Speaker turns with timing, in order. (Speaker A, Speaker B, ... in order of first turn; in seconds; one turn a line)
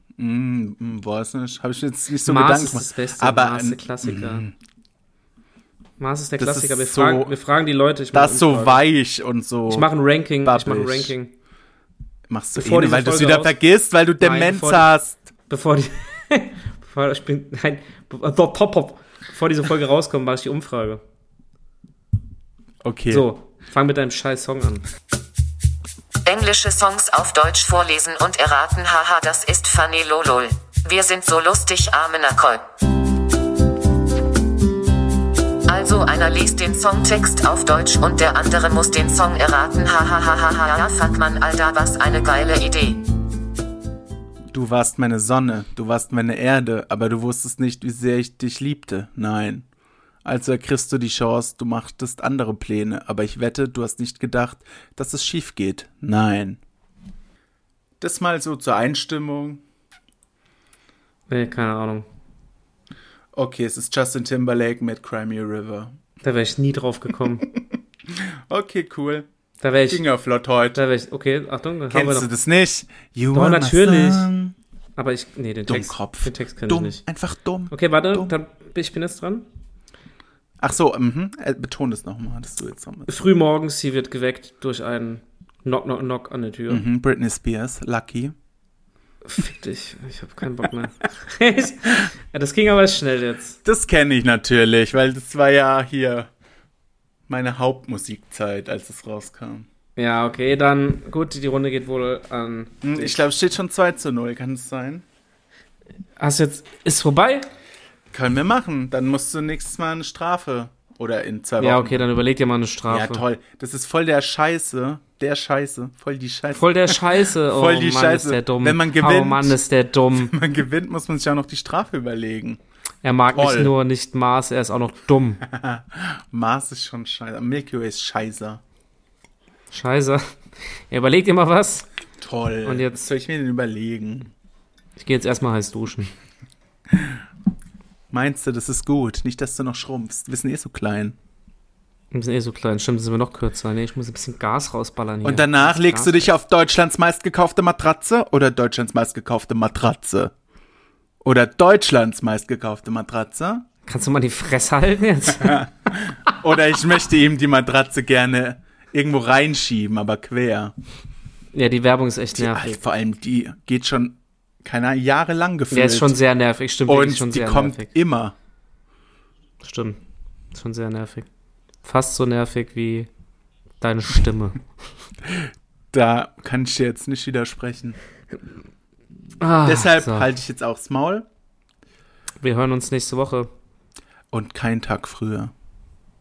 Speaker A: 0.2-4.5
Speaker B: 2.2-4.4
Speaker B: 6.0-8.8
Speaker A: 6.4-7.3
Speaker A: 8.1-9.9
Speaker B: 9.7-11.3
Speaker A: 10.4-11.1
Speaker A: 12.3-15.3
Speaker B: 12.5-13.6
Speaker B: 14.2-14.9
Speaker B: 15.5-21.0
Speaker A: 22.8-23.3
Speaker B: 23.1-24.8
Speaker C: 26.2-32.6
Speaker C: 35.7-43.0
Speaker A: 44.5-49.6
Speaker A: 50.2-56.6
Speaker A: 58.0-59.6
Speaker B: 61.3-62.0
Speaker A: 63.3-66.0
Speaker B: 66.2-67.5
Speaker A: 67.5-69.3
Speaker B: 69.6-70.0
Speaker A: 69.9-70.8
Speaker B: 70.7-72.3
Speaker A: 71.9-74.5
Speaker B: 73.3-74.3
Speaker B: 75.0-77.0
Speaker A: 75.7-78.3
Speaker B: 77.7-79.5
Speaker A: 80.6-83.1
Speaker B: 83.1-86.8
Speaker A: 86.7-88.3
Speaker B: 89.2-93.6
Speaker A: 93.6-96.3
Speaker A: 97.3-99.7
Speaker B: 100.0-103.1
Speaker A: 102.8-105.0
Speaker B: 106.2-107.5
Speaker A: 108.1-112.1
Speaker B: 111.6-113.2
Speaker A: 112.9-119.6
Speaker B: 116.5-120.3
Speaker A: 120.1-122.6
Speaker B: 123.0-125.4
Speaker A: 123.3-123.7
Speaker A: 125.4-128.6
Speaker B: 129.7-130.2
Speaker B: 130.9-131.9
Speaker A: 132.2-134.3
Speaker B: 132.6-133.0
Speaker B: 135.0-136.1
Speaker A: 136.9-137.2
Speaker A: 138.1-141.2
Speaker B: 142.1-146.3
Speaker A: 145.2-150.3
Speaker A: 151.2-153.6
Speaker B: 153.8-155.7
Speaker A: 155.4-160.7
Speaker B: 161.5-162.7
Speaker A: 162.3-166.1
Speaker B: 165.7-167.9
Speaker A: 166.9-168.3
Speaker B: 169.6-170.0
Speaker B: 170.5-171.3
Speaker B: 171.8-173.1
Speaker B: 173.8-174.6
Speaker A: 175.2-178.0
Speaker B: 179.4-180.3
Speaker A: 179.6-181.2
Speaker B: 182.4-183.5
Speaker A: 184.3-185.5